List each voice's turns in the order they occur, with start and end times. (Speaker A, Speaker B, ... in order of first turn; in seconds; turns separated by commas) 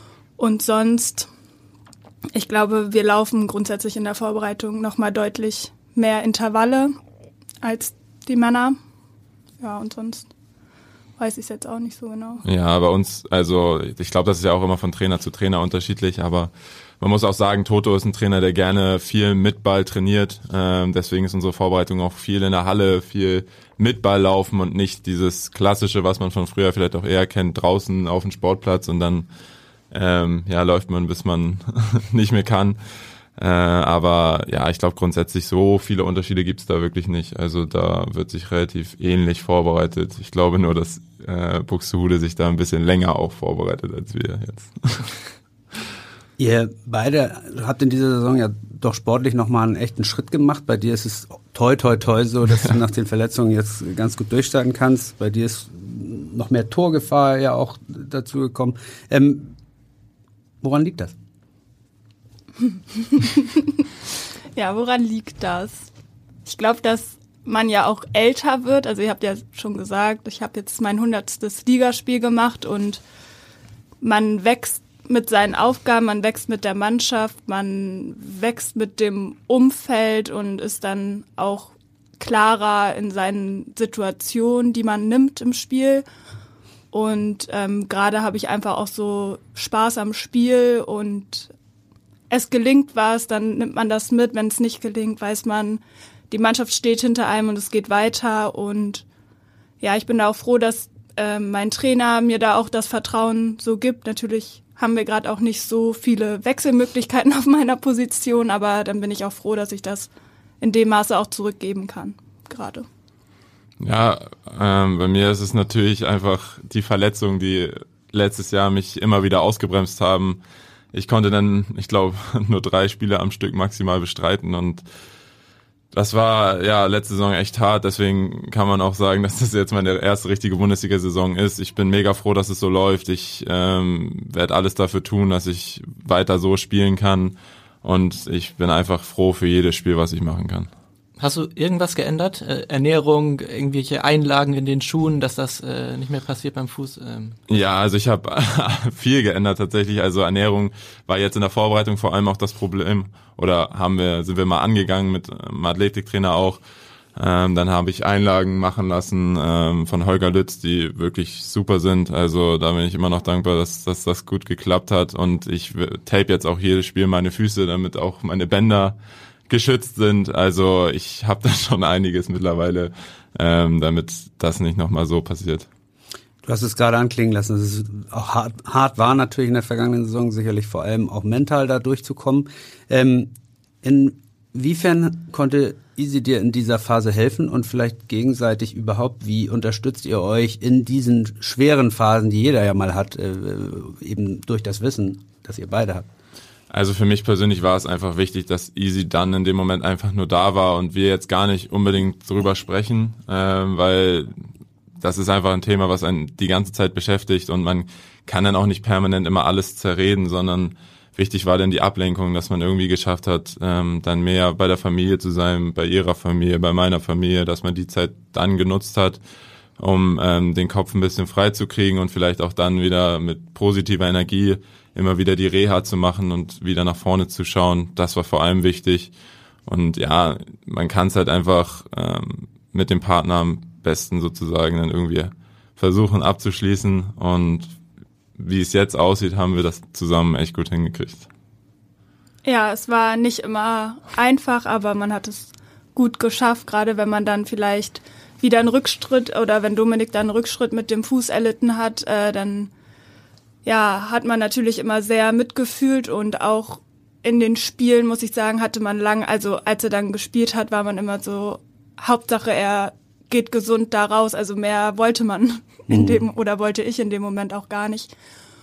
Speaker A: 0.4-1.3, Speaker A: 2.3-6.9, Speaker A: 7.6-8.8, Speaker A: 9.6-10.3, Speaker A: 11.2-12.4, Speaker B: 12.4-29.3, Speaker B: 29.9-32.8, Speaker B: 33.4-45.1, Speaker C: 46.4-59.5, Speaker C: 60.6-61.1, Speaker A: 63.0-63.9, Speaker A: 64.6-65.9, Speaker A: 66.5-73.0, Speaker A: 74.0-86.1, Speaker A: 86.9-91.5, Speaker A: 92.3-99.0, Speaker A: 99.8-110.1, Speaker A: 110.6-112.9, Speaker B: 113.8-120.4, Speaker B: 120.9-124.8, Speaker B: 125.9-140.7, Speaker D: 141.2-147.4, Speaker B: 147.5-156.6, Speaker B: 157.2-169.0, Speaker B: 169.5-175.7, Speaker C: 176.4-183.3, Speaker C: 183.8-196.1, Speaker B: 196.7-204.3, Speaker B: 205.0-219.2, Speaker B: 219.8-229.1, Speaker B: 229.7-237.7, Speaker B: 238.4-241.3, Speaker A: 242.4-252.7, Speaker A: 253.7-268.1, Speaker C: 265.9-266.2